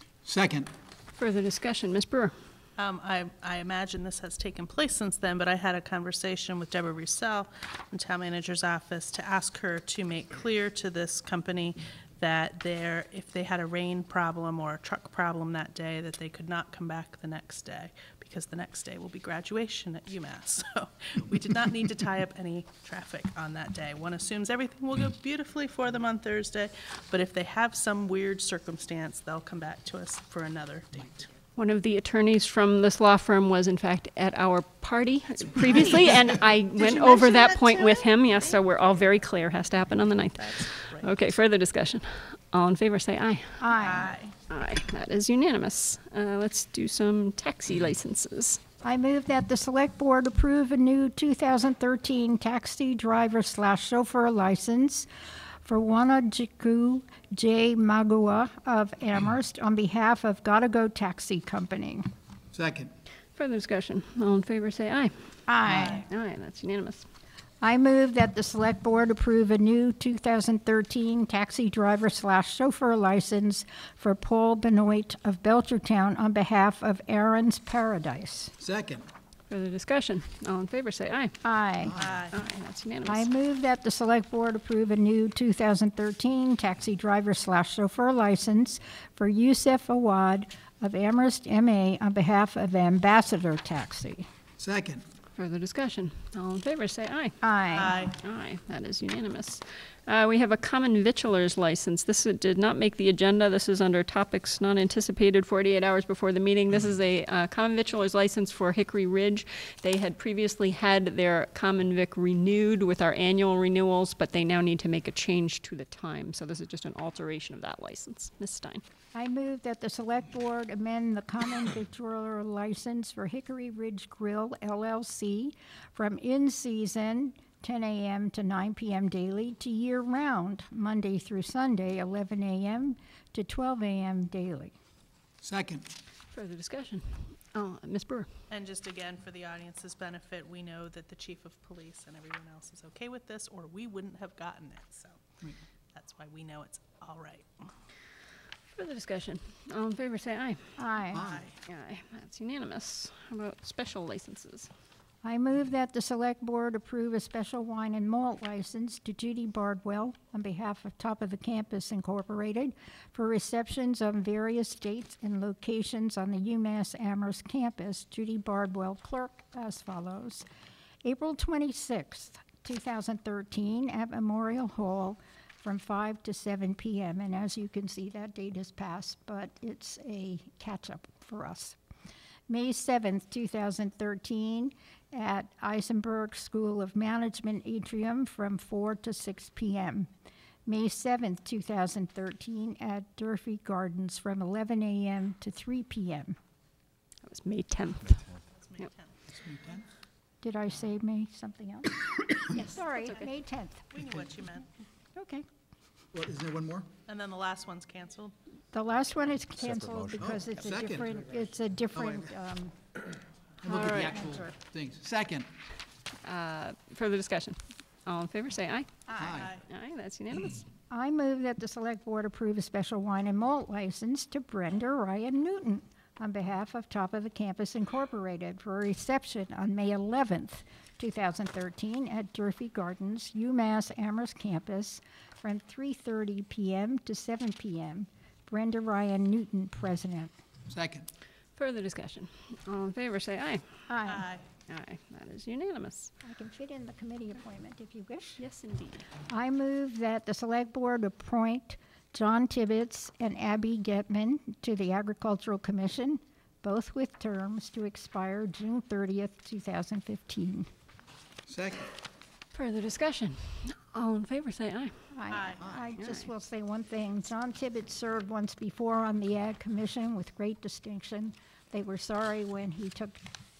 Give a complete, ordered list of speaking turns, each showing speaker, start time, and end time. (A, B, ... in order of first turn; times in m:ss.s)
0:00.2-0:00.7 A
0:01.2-0:02.3 B
0:02.8-0:31.3 C
0:31.6-0:43.7 B
0:35.6-0:36.2 C
0:36.7-0:38.5 C
0:40.4-0:41.1 C
0:43.6-0:44.1 D
0:43.7-0:44.4 C
0:44.5-0:48.6 B
0:48.8-0:55.1 D
0:55.6-1:02.1 D
1:02.5-1:02.9 A
1:03.4-1:05.1 B
1:05.5-1:06.1 D
1:05.7-1:06.0 C
1:06.1-1:07.0 B
1:07.6-1:18.5 D
1:18.6-1:19.0 A
1:19.5-1:21.4 B
1:21.4-1:22.0 D
1:21.8-1:22.1 A
1:22.0-1:22.4 C
1:22.3-1:23.3 B
1:23.0-1:34.3 D
1:34.6-1:35.0 A
1:35.3-1:37.4 B
1:37.4-1:38.0 D
1:37.7-1:38.2 C
1:38.2-1:58.8 B
1:59.1-2:14.7 D
2:15.4-2:15.9 A
2:16.3-2:18.3 B
2:18.5-2:25.2 C
2:25.9-2:27.7 C
2:28.7-2:30.7 B
2:30.8-2:31.3 D
2:31.1-2:31.5 A
2:31.1-2:31.6 C
2:31.6-2:34.7 B
2:35.2-2:50.4 D
2:51.0-3:01.8 D
3:02.5-3:10.1 D
3:10.6-3:16.4 D
3:17.2-3:18.3 B
3:18.5-3:19.1 C
3:19.3-3:19.8 A
3:20.4-3:23.9 D
3:22.5-3:23.0 B
3:23.9-3:24.7 C
3:25.1-3:25.4 D
3:26.1-3:26.9 A
3:27.0-3:28.3 C
3:28.7-3:32.7 D
3:30.1-3:31.2 A
3:32.0-3:32.2 A
3:33.6-3:35.5 A
3:33.6-3:34.5 D
3:36.2-3:39.0 B
3:39.1-3:39.5 D
3:39.2-3:39.5 A
3:39.3-3:39.6 C
3:39.7-3:40.6 B
3:40.9-4:00.3 D
4:00.7-4:01.1 A
4:01.6-4:03.6 B
4:03.9-4:04.3 D
4:04.0-4:04.5 C
4:04.7-4:06.1 B
4:06.2-4:08.4 D
4:08.4-4:09.0 B
4:09.3-4:20.7 D
4:21.4-4:21.9 A
4:22.5-4:25.0 B
4:25.1-4:33.2 D
4:25.3-4:25.6 C
4:25.6-4:25.8 A